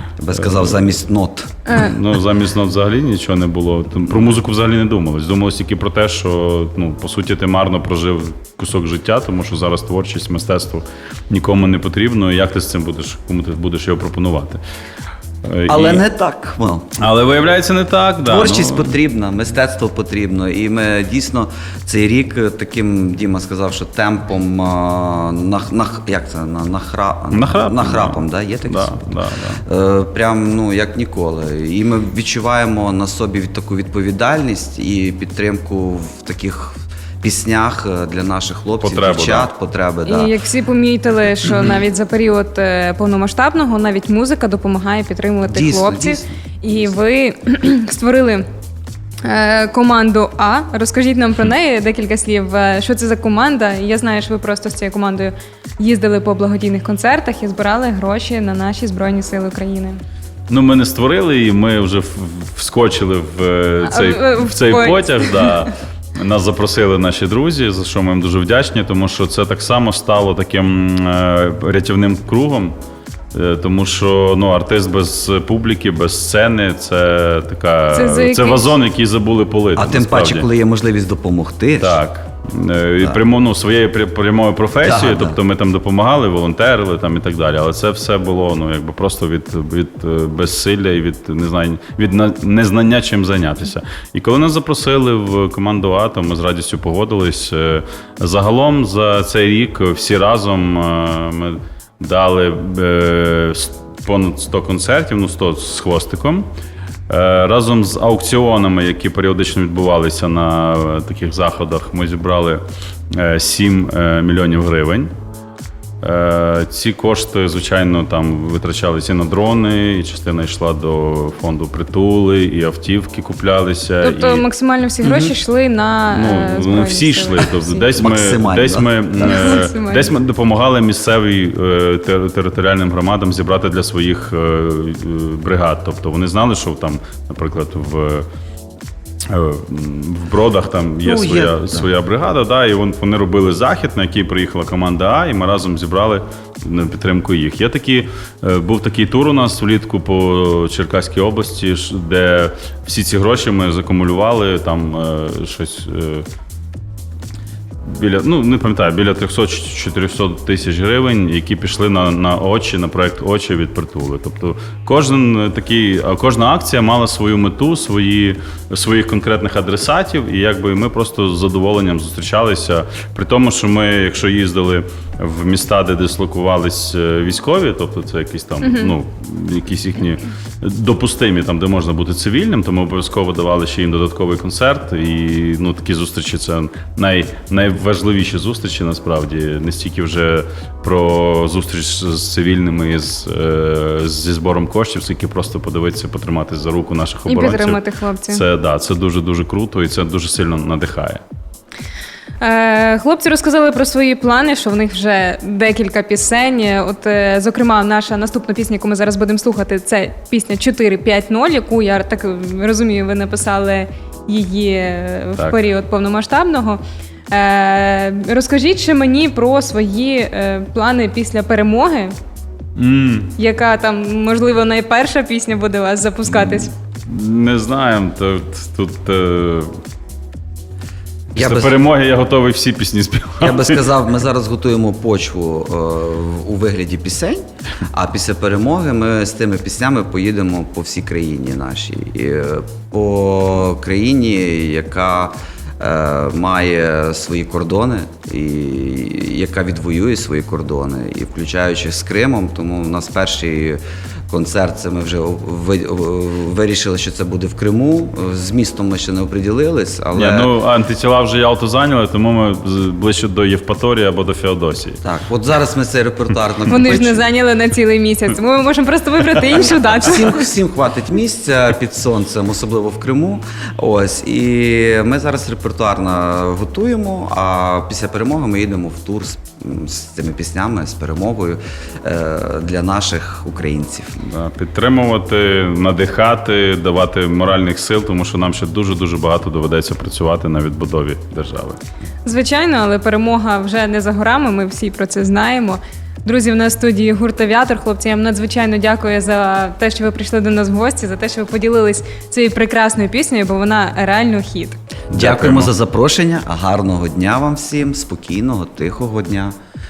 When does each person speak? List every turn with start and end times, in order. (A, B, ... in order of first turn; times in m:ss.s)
0:00.2-0:01.5 A
0:00.4-0:01.0 B
0:01.7-0:14.6 B
0:15.4-0:16.0 B
0:15.7-0:16.9 A
0:17.0-0:19.0 B
0:18.2-0:29.1 A
0:27.3-0:29.6 B
0:29.6-0:40.3 A
0:38.8-0:39.5 B
0:40.0-0:48.4 C
0:45.4-0:46.3 A
0:49.2-1:00.0 C
1:00.5-1:12.7 B
1:03.8-1:05.6 C
1:13.3-1:20.5 B
1:17.9-1:18.7 C
1:19.8-1:22.0 A
1:21.8-1:46.5 B
1:24.8-1:25.4 A
1:47.1-1:55.1 B
1:56.0-2:04.4 B
2:04.0-2:07.9 C
2:05.0-2:05.3 B
2:06.1-2:18.2 B
2:08.0-2:09.4 A
2:09.2-2:10.1 C
2:19.3-2:36.2 B
2:21.0-2:21.9 A
2:37.8-3:21.2 B
2:58.6-2:58.9 C
3:17.3-3:18.4 C
3:22.4-3:42.1 C
3:42.8-3:43.3 B
3:43.4-3:46.7 C
3:47.0-3:49.7 B
3:51.3-3:51.8 A
3:51.4-3:53.8 B
3:53.4-4:20.5 A
4:20.1-4:25.0 B
4:25.0-4:27.2 A
4:26.7-4:30.4 C
4:30.0-4:44.2 A
4:44.2-4:51.8 B
4:52.2-5:04.8 C
5:05.1-5:05.7 B
5:05.1-5:09.5 A